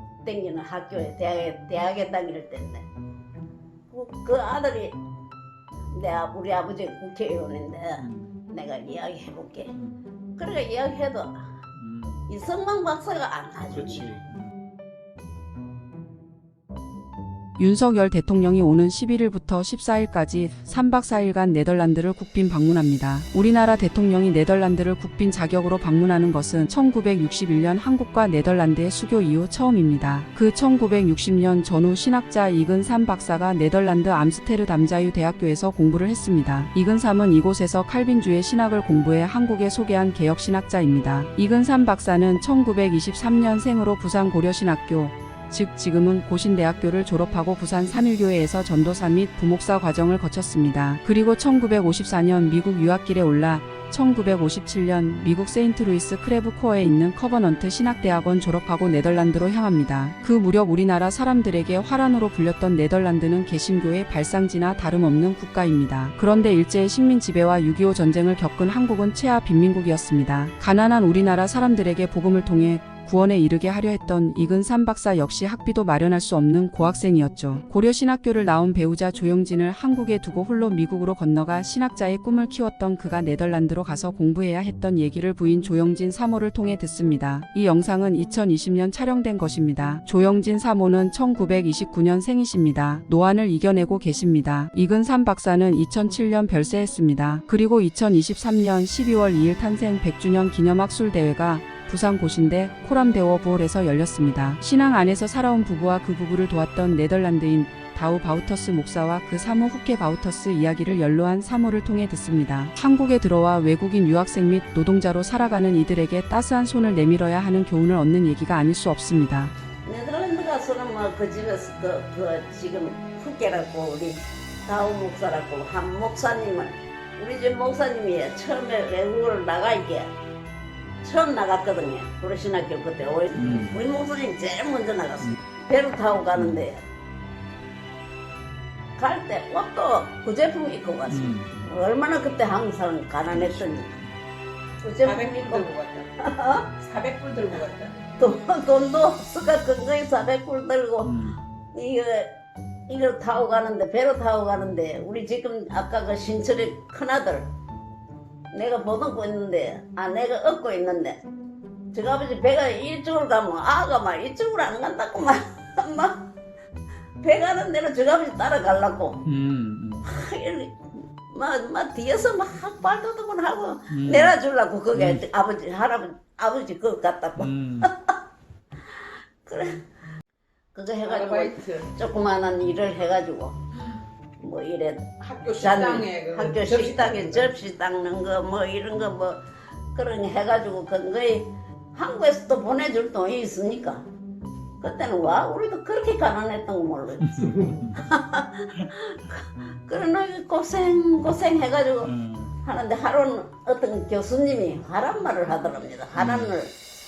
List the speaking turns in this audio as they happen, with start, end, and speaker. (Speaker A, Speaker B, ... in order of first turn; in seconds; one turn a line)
Speaker A: 0.2-2.9
Speaker A: 3.9-5.0
Speaker A: 5.9-9.7
Speaker B: 8.0-8.2
Speaker A: 10.4-11.4
Speaker B: 11.8-12.2
Speaker A: 12.3-14.1
Speaker B: 13.7-14.3
Speaker C: 17.6-119.5
Speaker A: 119.8-130.1
Speaker A: 131.0-136.8
Speaker B: 133.4-133.8
Speaker B: 136.3-136.6
Speaker A: 139.0-143.9
Speaker B: 141.1-141.7
Speaker B: 143.3-144.1
Speaker A: 144.8-146.7
Speaker D: 145.0-146.1
Speaker D: 146.7-148.2
Speaker A: 148.2-151.1
Speaker B: 151.0-151.4
Speaker A: 151.7-152.3
Speaker A: 152.9-157.4
Speaker A: 158.5-161.2
Speaker A: 161.9-166.2
Speaker A: 167.2-169.2
Speaker B: 169.3-170.0
Speaker A: 170.0-178.1
Speaker B: 173.9-174.3
Speaker B: 174.9-175.2
Speaker B: 177.4-177.9
Speaker A: 179.4-179.8
Speaker A: 180.8-183.5
Speaker D: 181.0-181.9
Speaker A: 184.4-185.0
Speaker D: 185.2-187.5
Speaker A: 185.6-189.4
Speaker A: 189.9-194.0
Speaker A: 194.8-202.1
Speaker B: 197.3-197.9
Speaker B: 202.0-202.5
Speaker A: 202.6-206.7
Speaker B: 206.2-206.5